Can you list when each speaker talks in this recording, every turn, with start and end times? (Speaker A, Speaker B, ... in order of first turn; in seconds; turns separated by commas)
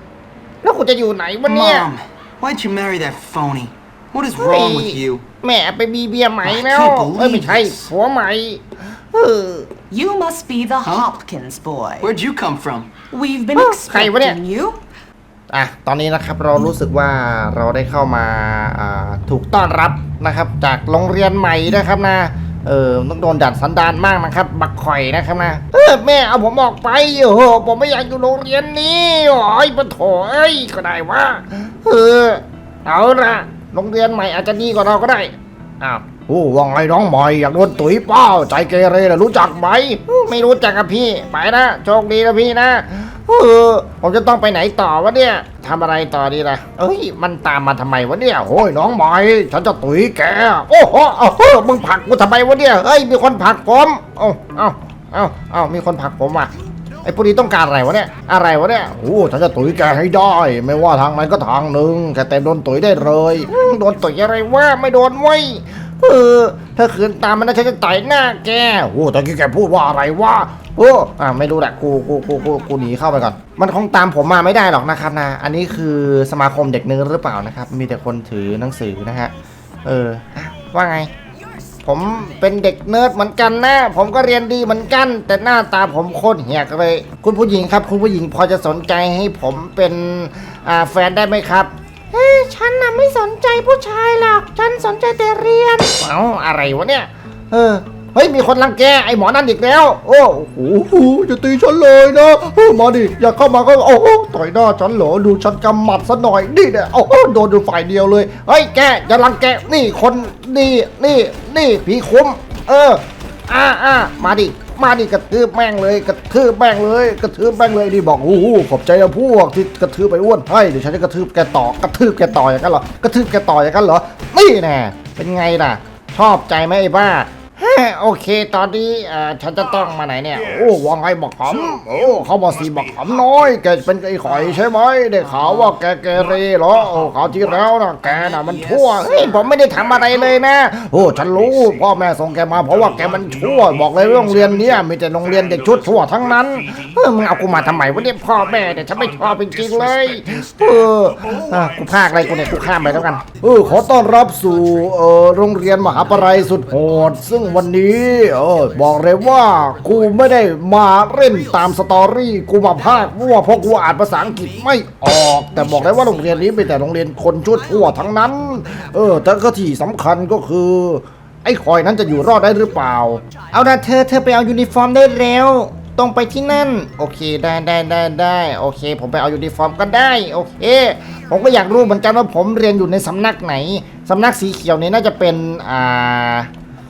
Speaker A: 0.6-1.9, Speaker B: 1.5-5.2, Speaker A: 4.4-9.7, Speaker B: 6.4-7.9, Speaker C: 9.9-12.1, Speaker B: 10.8-11.1, Speaker B: 12.0-13.1, Speaker C: 13.1-14.8, Speaker A: 13.6-14.4, Speaker A: 15.5-56.5, Speaker A: 57.0-79.3, Speaker A: 79.8-81.1, Speaker A: 81.8-186.5, Speaker B: 138.1-139.1